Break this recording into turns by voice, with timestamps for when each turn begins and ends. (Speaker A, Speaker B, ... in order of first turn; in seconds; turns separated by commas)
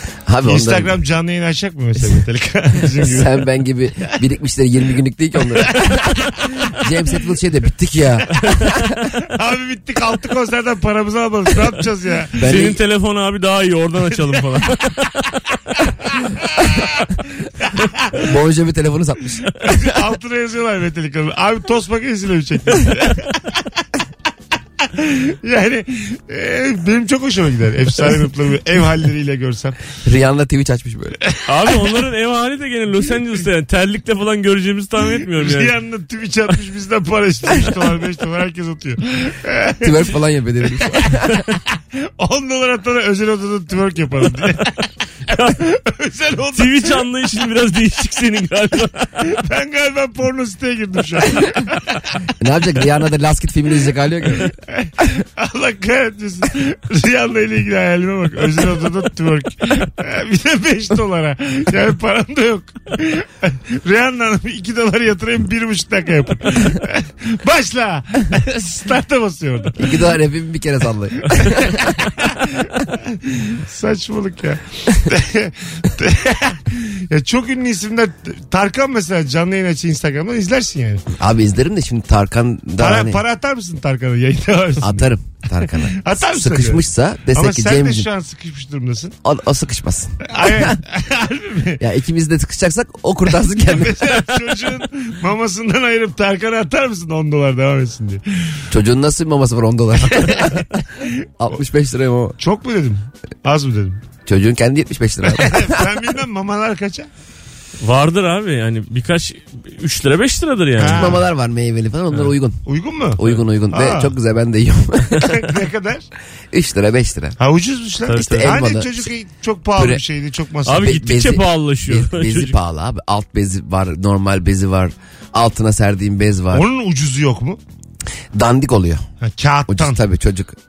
Speaker A: 0.2-0.9, Speaker B: 0.4-3.4, Speaker A: 2.8-8.5, Speaker B: 5.5-6.8, Speaker B: 9.2-12.5, Speaker A: 12.3-12.8, Speaker C: 12.4-15.2, Speaker B: 16.1-17.1, Speaker B: 17.6-18.2, Speaker A: 18.2-19.9, Speaker B: 19.6-23.6, Speaker B: 24.8-29.8, Speaker A: 30.0-31.2, Speaker C: 31.4-35.7, Speaker B: 35.3-40.0, Speaker A: 39.8-41.4, Speaker B: 40.8-41.2, Speaker B: 42.2-44.8, Speaker B: 45.3-47.0, Speaker C: 46.5-49.1, Speaker B: 49.2-52.3, Speaker A: 52.4-54.5, Speaker B: 54.4-70.0, Speaker A: 69.8-71.9, Speaker B: 71.3-81.0, Speaker A: 81.1-83.2, Speaker B: 82.8-85.1, Speaker A: 84.8-88.1, Speaker B: 85.8-86.8, Speaker B: 87.3-89.2, Speaker A: 89.2-90.8, Speaker B: 90.3-91.8, Speaker A: 91.8-94.2, Speaker B: 93.7-98.6, Speaker A: 98.7-100.7, Speaker B: 100.1-101.1, Speaker A: 101.4-102.4, Speaker B: 102.4-104.0, Speaker A: 104.2-105.9, Speaker B: 105.2-107.1, Speaker C: 107.8-111.2, Speaker B: 110.8-111.2, Speaker A: 110.8-112.6, Speaker B: 112.7-114.1, Speaker A: 113.2-115.5, Speaker B: 115.2-116.0, Speaker A: 116.5-117.3, Speaker B: 117.4-120.9, Speaker C: 118.1-118.5, Speaker A: 118.1-119.1, Speaker A: 119.7-120.0, Speaker C: 120.7-122.5, Speaker A: 120.7-126.7, Speaker B: 126.5-127.6, Speaker A: 128.3-129.1, Speaker B: 129.2-130.0, Speaker A: 129.7-130.6